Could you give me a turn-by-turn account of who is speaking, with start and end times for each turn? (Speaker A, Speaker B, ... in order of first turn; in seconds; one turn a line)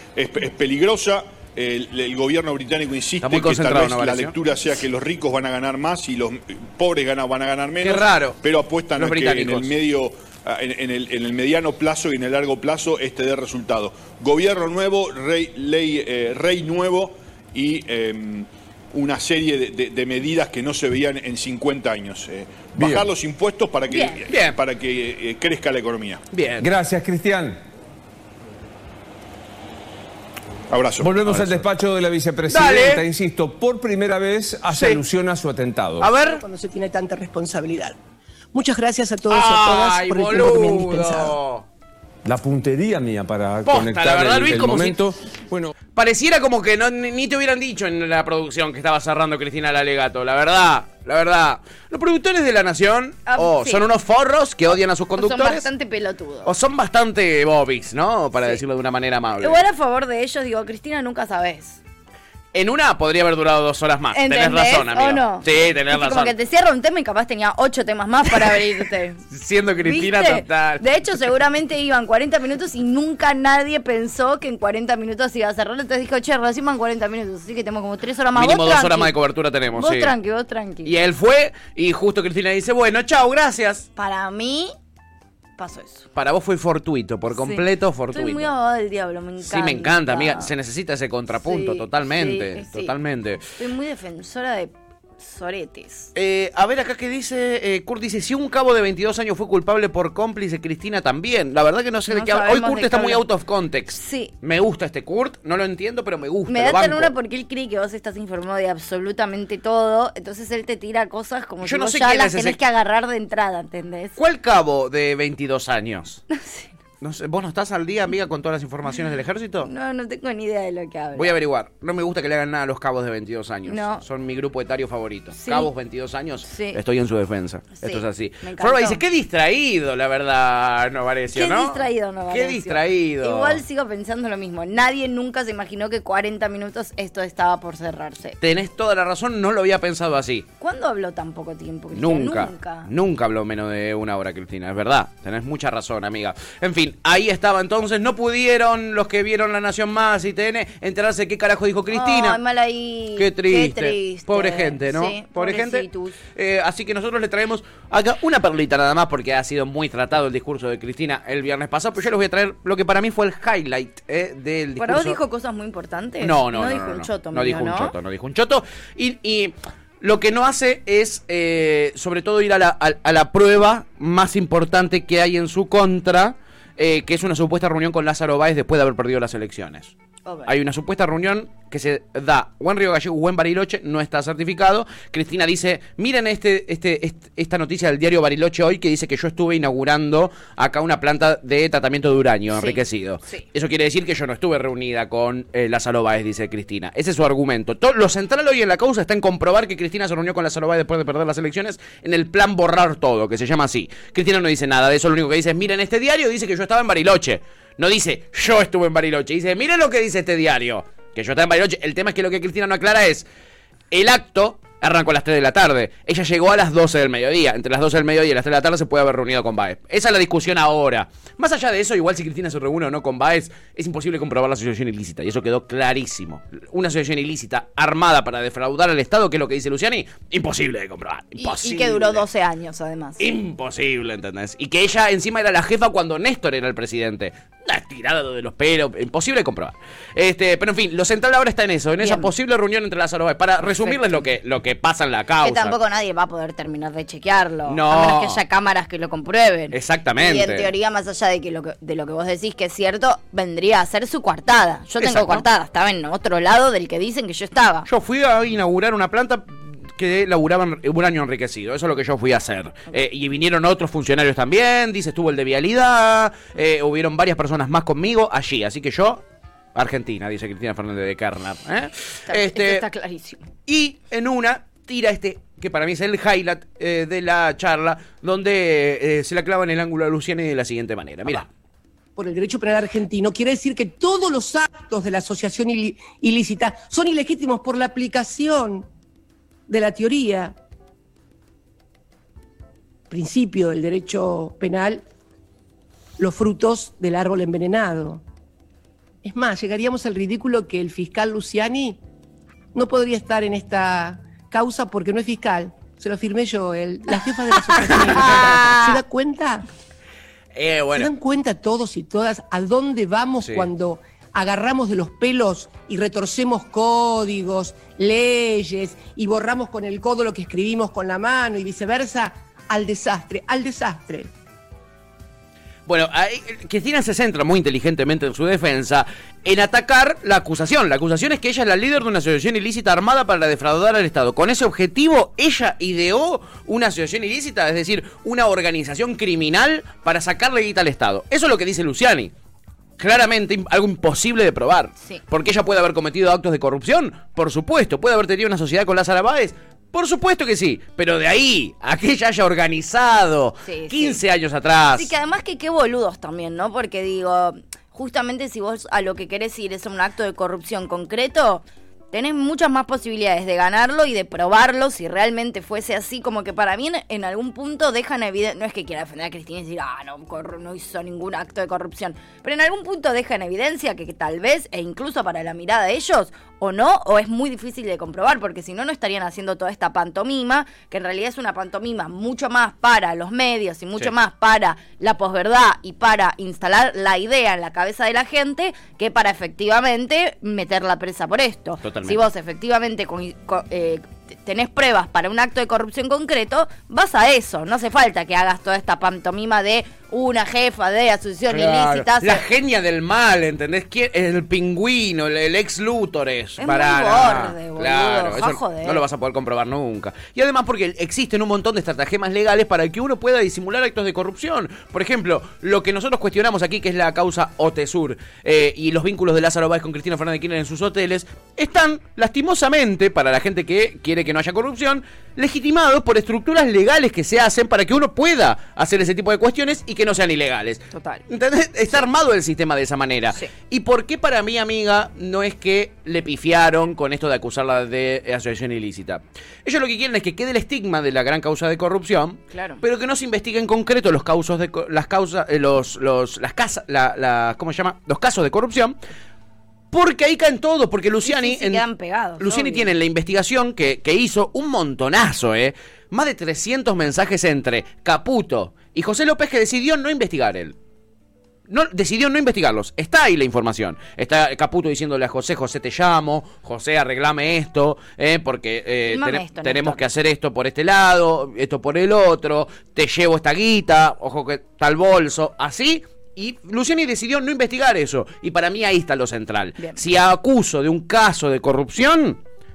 Speaker A: 0.1-26.2
Speaker B: 3.2-4.3
Speaker B: 7.8-8.4
Speaker B: 9.0-9.7
Speaker C: 22.8-23.1
Speaker D: 23.9-24.2
Speaker B: 24.3-24.6
Speaker B: 26.3-26.7
Speaker C: 26.6-27.6
Speaker A: 30.7-31.5
Speaker C: 31.0-36.1
Speaker B: 32.5-33.0
Speaker B: 34.7-35.0
Speaker B: 36.0-36.4
Speaker E: 36.2-38.0
Speaker E: 38.5-41.4
Speaker B: 39.3-41.6
Speaker C: 42.2-45.7
Speaker B: 43.6-45.0
Speaker B: 45.9-55.6
Speaker D: 53.3-53.8
Speaker D: 55.1-56.5
Speaker B: 56.4-59.6
Speaker D: 58.4-58.6
Speaker D: 59.4-61.8
Speaker B: 62.5-66.3
Speaker D: 64.1-69.2
Speaker B: 68.3-68.7
Speaker B: 69.3-70.8
Speaker D: 69.8-79.1
Speaker B: 78.3-80.1
Speaker D: 79.7-80.9
Speaker B: 80.8-83.9
Speaker D: 84.0-84.7
Speaker D: 85.6-86.1
Speaker B: 86.2-88.5
Speaker D: 87.3-90.5
Speaker B: 89.4-93.4
Speaker D: 91.4-93.0
Speaker D: 93.6-96.1
Speaker B: 96.1-107.1
Speaker D: 102.1-103.2
Speaker D: 103.9-104.3
Speaker D: 106.5-114.2
Speaker B: 111.6-112.6
Speaker B: 114.2-116.2
Speaker D: 116.3-116.7
Speaker B: 117.0-119.7
Speaker D: 119.6-121.4
Speaker B: 121.1-133.6
Speaker D: 123.7-124.0
Speaker D: 125.3-125.7
Speaker D: 126.4-126.8
Speaker D: 127.8-129.0
Speaker D: 131.3-138.4
Speaker B: 138.4-140.4
Speaker D: 140.6-142.9
Speaker B: 141.9-152.4
Speaker D: 151.9-156.2
Speaker B: 153.2-165.2
Speaker D: 164.8-167.9
Speaker B: 166.2-179.9
Speaker D: 180.2-180.5
Speaker B: 180.4-213.2
Speaker D: 192.5-193.4
Speaker B: 213.9-232.2
Speaker D: 231.3-233.2
Speaker B: 233.2-245.8
Speaker D: 242.0-242.3
Speaker D: 243.7-244.2
Speaker D: 245.4-257.9
Speaker B: 247.7-248.4
Speaker B: 249.7-250.7
Speaker B: 255.0-255.4
Speaker B: 257.9-269.2
Speaker B: 269.7-272.8
Speaker D: 272.3-273.5
Speaker B: 273.7-281.5
Speaker E: 282.1-288.9
Speaker E: 289.7-290.6
Speaker E: 293.1-295.0
Speaker E: 296.2-298.2
Speaker E: 299.2-302.0
Speaker E: 302.7-309.6
Speaker B: 307.8-309.0
Speaker B: 310.5-311.1
Speaker E: 310.9-324.3
Speaker B: 313.4-313.7
Speaker B: 325.9-342.3
Speaker B: 343.0-355.1
Speaker D: 353.6-354.2
Speaker D: 354.9-402.4
Speaker B: 391.8-392.2
Speaker B: 401.5-448.9
Speaker D: 406.6-409.0
Speaker D: 430.9-431.2
Speaker D: 442.5-442.8
Speaker B: 449.9-451.8
Speaker D: 451.2-452.9
Speaker B: 452.4-460.7
Speaker B: 461.7-482.4
Speaker D: 469.1-470.0